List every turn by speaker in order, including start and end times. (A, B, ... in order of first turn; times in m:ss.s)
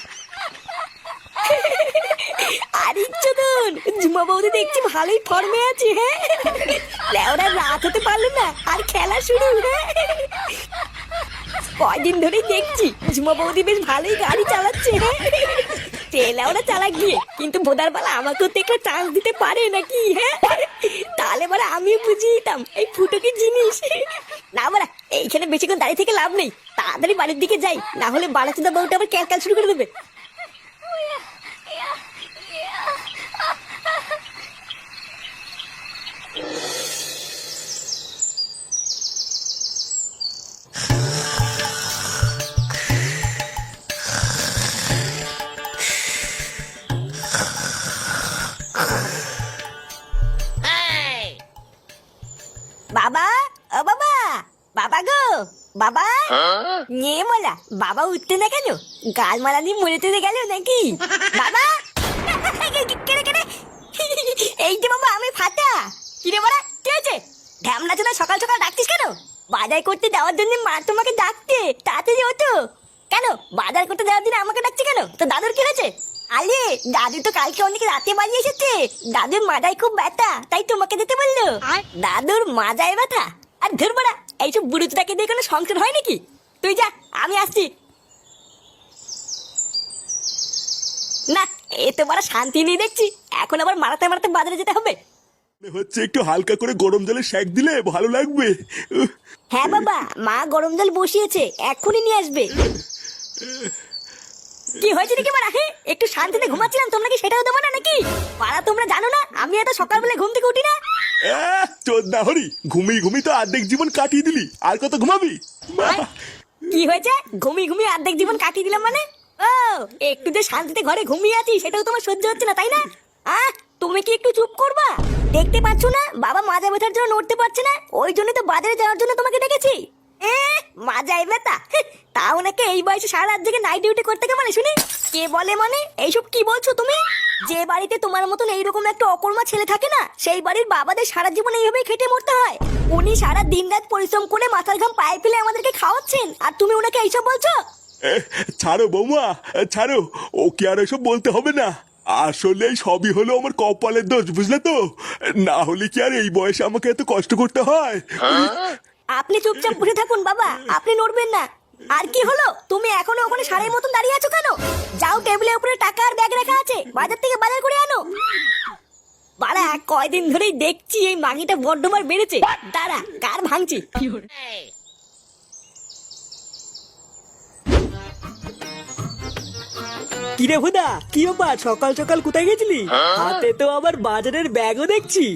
0:01.4-0:10.5 A
0:11.8-0:29.9 A
0:52.9-1:12.5 A
1:13.1-1:27.7 A
1:31.3-1:35.0 A
1:35.6-1:39.1 B
1:39.5-1:42.5 A
1:44.8-1:50.8 A
1:51.2-1:56.1 B
1:56.7-2:27.6 A
2:28.1-2:34.8 B
2:35.4-2:38.7 B
2:39.2-2:48.0 A
2:49.4-2:53.8 A
3:00.4-3:05.3 C